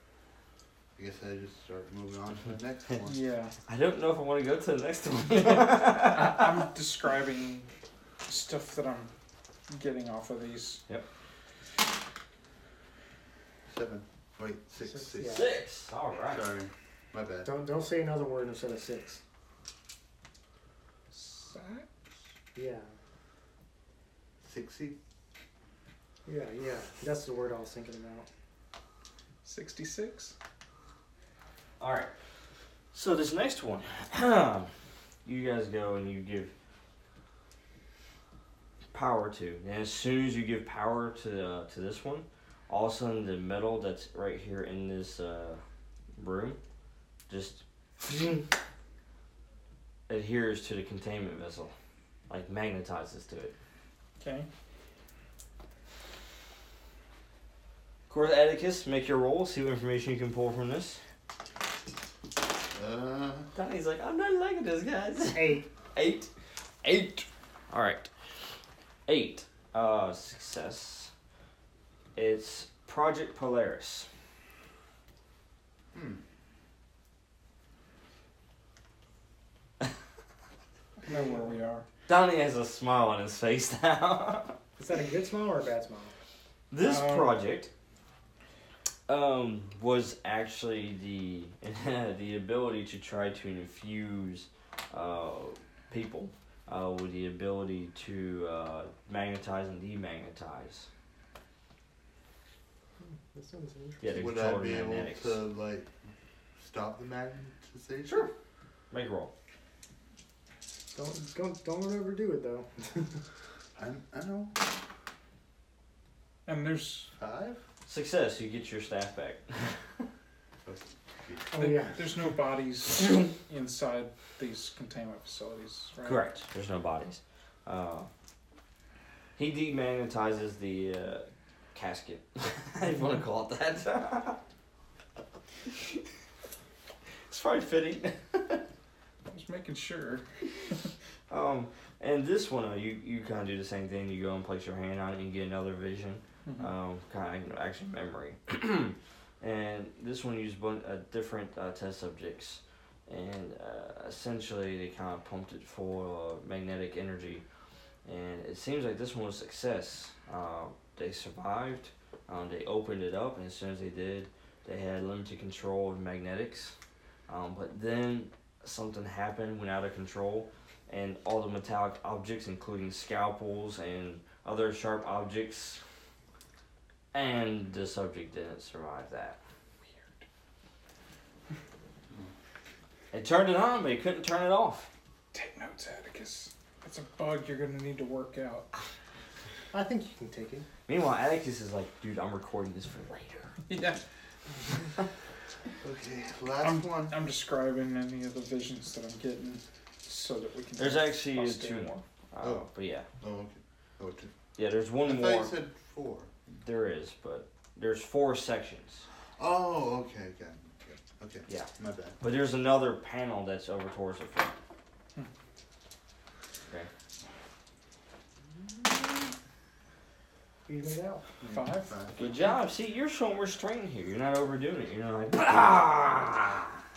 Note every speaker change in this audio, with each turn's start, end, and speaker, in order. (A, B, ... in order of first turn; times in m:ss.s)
0:01.0-0:03.2 A
0:03.1-0:03.6 B
0:03.7-0:06.7 C
0:05.5-0:07.7 B
0:08.3-0:09.1 B
0:09.7-0:10.8 B
0:13.7-0:15.5 A
0:14.8-0:15.5 D
0:15.2-0:16.5 C
0:16.3-0:17.5 A
0:17.4-0:19.2 D
0:21.1-0:21.9 B
0:22.6-0:22.9 D
0:24.4-0:25.0 A
0:26.3-0:28.3 D
0:29.4-0:30.4 B
0:31.8-0:32.1 C
0:32.9-0:34.7 C
0:35.2-0:36.5 C
0:38.9-0:45.6 C
0:46.2-0:46.6 C
0:47.3-0:48.5 C
0:50.1-0:51.7 C
0:52.3-0:53.6 C
0:54.2-0:54.5 B
0:58.1-1:01.0 C
1:02.7-1:03.5 A
1:03.6-1:06.3 C
1:05.3-1:05.7 D
1:06.8-1:08.1 C
1:09.1-1:11.1 C
1:12.2-1:14.1 C
1:15.9-1:16.2 A
1:21.0-1:21.8 B
1:22.1-1:24.6 C
1:24.8-1:26.1 D
1:26.7-1:27.7 C
1:26.8-1:27.4 B
1:29.1-1:40.9 C
1:43.0-1:44.3 D
1:44.0-1:45.4 C
1:44.1-1:46.0 A
1:46.6-1:48.3 A
1:48.1-1:48.3 C
1:48.9-1:49.3 C
1:50.9-1:53.2 D
1:53.8-1:54.6 A
1:56.5-1:57.1 B
1:57.2-1:57.6 A
1:57.9-1:59.8 C
2:00.6-2:01.5 A
2:01.5-2:02.2 D
2:01.6-2:06.2 B
2:06.0-2:08.1 C
2:09.4-2:14.4 C
2:15.7-2:16.0 C
2:17.3-2:18.6 C
2:19.3-2:20.2 B
2:21.3-2:37.4 C
2:26.5-2:26.7 B
2:38.0-2:46.8 C
2:47.3-2:55.8 C
2:57.1-2:59.4 C
2:59.9-3:00.2 B
3:03.1-3:04.9 C
3:05.3-3:08.7 B
3:09.7-3:10.7 D
3:10.9-3:13.6 C
3:13.7-3:14.0 B
3:15.8-3:17.2 A
3:16.6-3:21.9 B
3:20.8-3:23.1 C
3:22.4-3:22.7 A
3:23.2-3:24.3 A
3:24.6-3:25.5 C
3:25.0-3:26.4 A
3:26.6-3:29.1 C
3:29.4-3:32.2 A
3:31.5-3:34.6 C
3:40.7-3:41.3 D
3:41.4-3:42.2 A
3:41.5-3:42.3 B
3:42.2-3:46.8 C